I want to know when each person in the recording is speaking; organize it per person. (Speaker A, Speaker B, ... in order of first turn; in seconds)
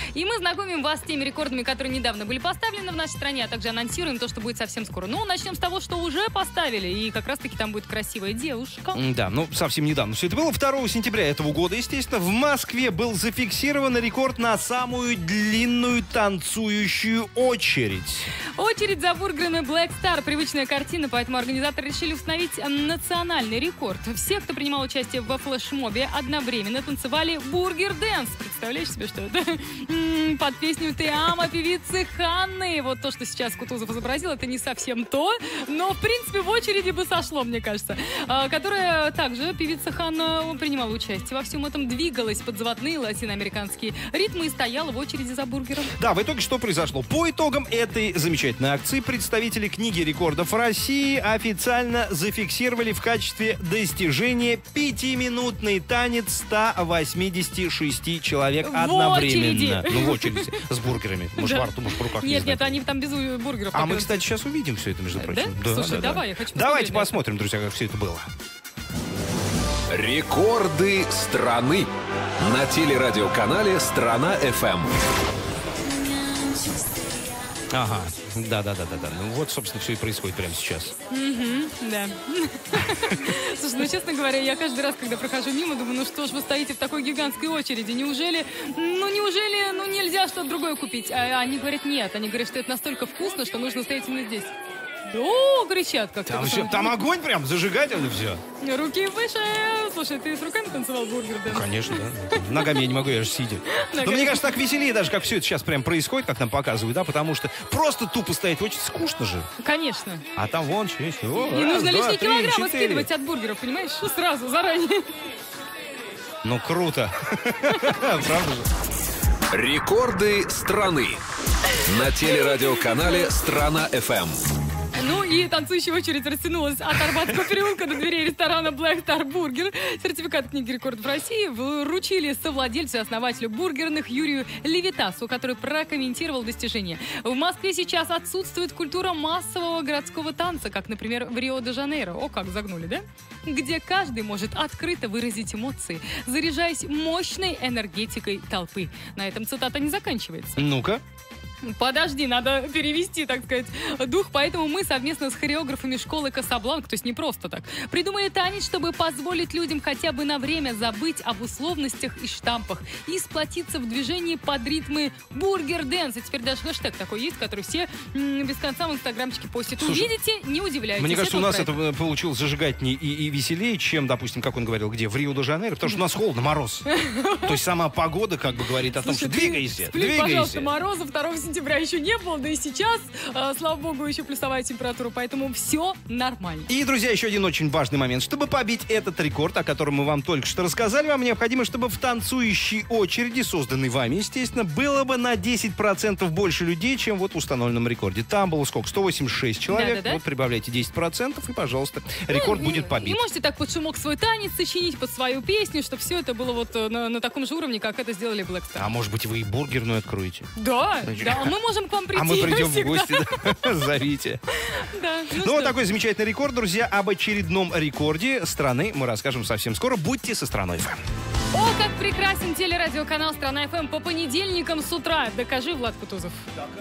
Speaker A: 0.1-9.0, 18.6-45.9, 58.7-60.6, 61.4-61.7, 62.2-64.1, 65.1-67.1, 81.2-94.5, 95.0-96.9, 98.6-101.7, 102.3-102.8, 103.7-104.4, 109.6-110.2, 111.5-115.0, 125.0-150.6, 151.6-171.7, 176.8-177.5, 179.0-186.7, 199.7-200.2, 202.3-208.8, 210.6-213.9, 214.6-215.7, 221.5-226.4
Speaker B: 8.9-18.3, 45.9-62.8, 63.7-68.3, 77.7-80.9, 82.8-83.2, 96.2-98.4, 101.5-109.5, 110.3-113.1, 116.4-118.7, 150.6-151.0, 169.8-170.1, 171.0-176.9, 177.4-180.7, 186.7-203.2, 208.8-210.5, 211.0-211.5, 212.1-214.4, 215.3-221.0
Speaker C: 69.9-71.9, 72.4-74.9, 119.5-121.2, 121.8-124.4